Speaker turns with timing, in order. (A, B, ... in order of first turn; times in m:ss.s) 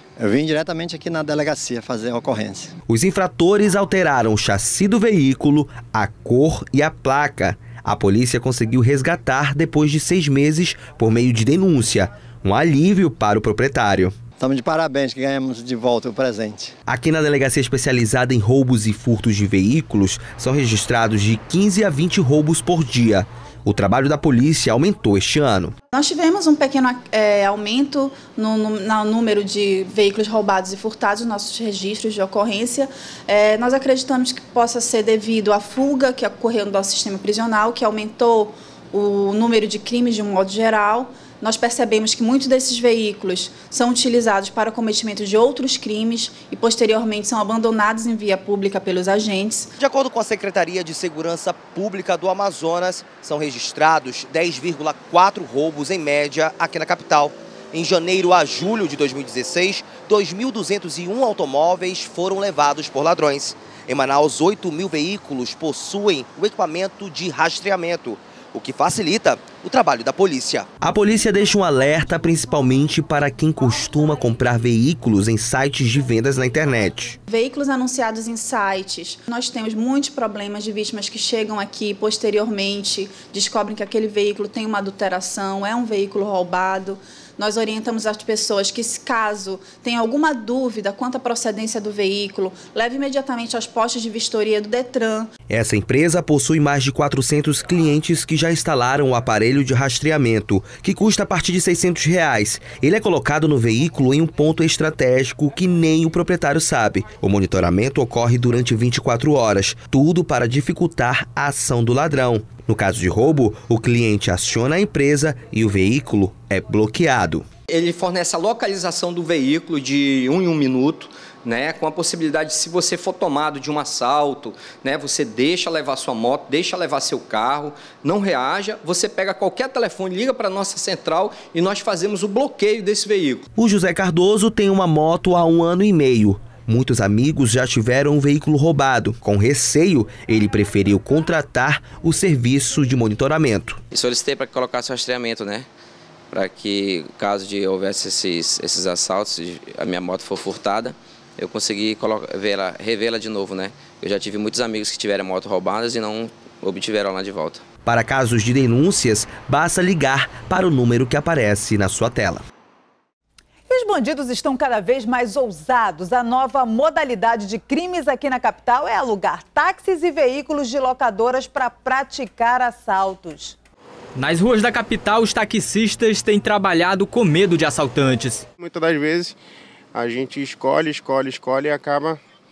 0:00.2-0:02.7 A
0:02.9-0:14.1 B
0:14.4-0:16.7 A
0:16.9-0:25.7 B
0:26.0-0:49.7 C
0:49.8-0:55.3 B
0:51.4-0:51.7 D
0:53.4-0:56.6 D
0:56.3-1:17.2 B
1:01.2-1:02.2 D
1:05.6-1:06.2 D
1:17.3-1:35.2 C
1:35.5-1:57.5 B
1:57.7-2:13.4 E
2:13.6-2:23.8 B
2:23.9-2:25.7 D
2:26.3-2:37.6 D
2:37.9-2:42.4 B
2:43.7-2:53.6 F
2:54.2-2:58.4 G
2:58.6-2:59.4 H
2:59.9-3:02.2 H